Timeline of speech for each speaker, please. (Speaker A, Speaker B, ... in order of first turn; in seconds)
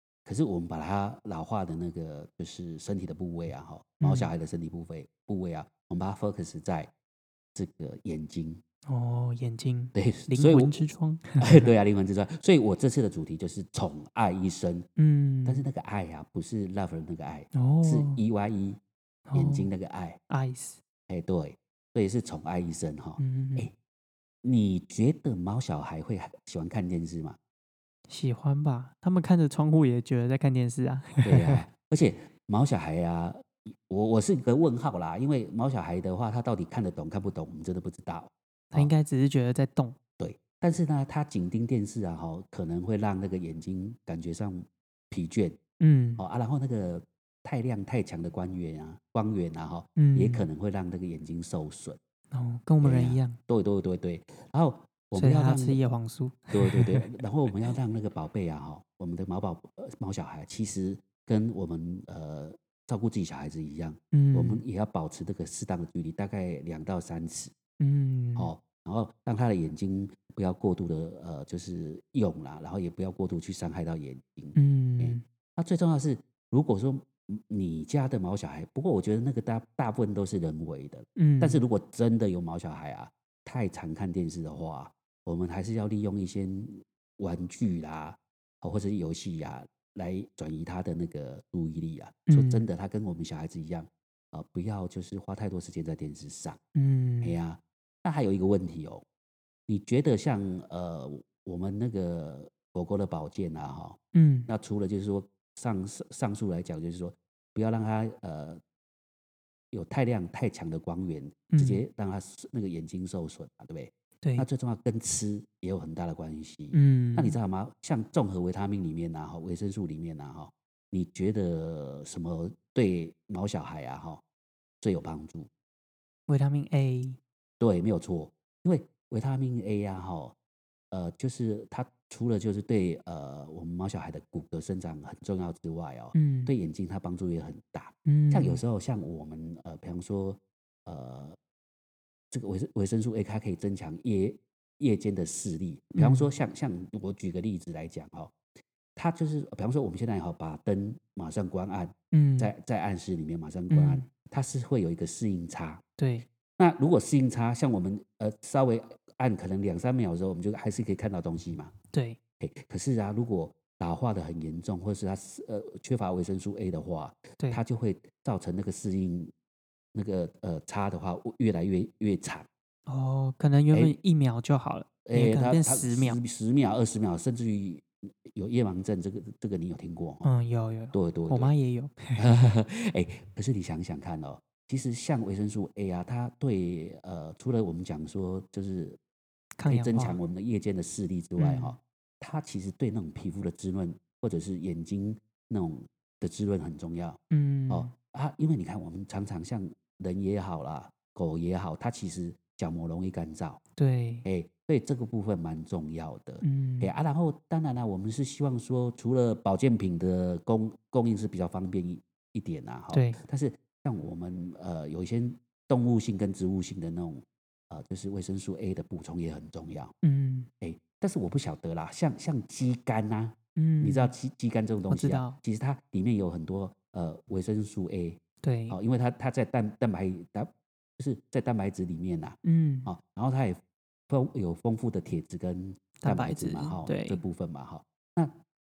Speaker A: 0.3-6.9, 7.5-8.6, 9.9-10.8, 11.4-14.9, 15.5-18.8, 19.3-20.2, 21.1-23.7, 24.4-27.4, 31.2-38.9, 40.2-45.6, 46.2-52.0, 52.8-55.8, 56.5-67.5, 68.4-96.6, 97.2-99.0, 99.7-108.6, 109.7-124.2, 124.8-125.5, 127.6-130.3, 130.9-141.4, 142.3-148.3, 149.0-155.8, 156.6-161.7, 162.4-169.3, 169.9-172.5, 175.1-180.3, 180.9-181.5, 182.2-189.0, 189.7-203.6, 204.2-219.9, 220.6-238.3
Speaker B: 4.0-4.3, 8.9-11.6, 15.0-15.7, 17.5-18.2, 19.3-19.7, 20.3-20.8, 23.2-23.7, 28.1-31.6, 38.7-40.0, 45.8-46.2, 50.0-50.5, 52.3-53.4, 55.1-57.1, 64.1-64.6, 67.8-68.5, 74.5-75.2, 81.2-81.6, 92.3-92.7, 96.8-97.3, 104.1-104.5, 111.5-111.8, 114.2-114.5, 116.7-117.4, 126.3-127.2, 136.1-136.5, 138.1-138.6, 145.9-146.3, 152.1-152.5, 153.7-154.1, 156.0-156.3, 161.9-162.2, 172.9-176.2, 180.2-182.2, 189.6-190.2, 191.4-191.8, 197.3-197.9, 203.8-204.3, 206.4-206.9, 212.9-213.2, 220.0-220.5, 223.6-224.1, 224.9-225.4, 228.4-228.8, 232.4-232.9, 236.0-237.2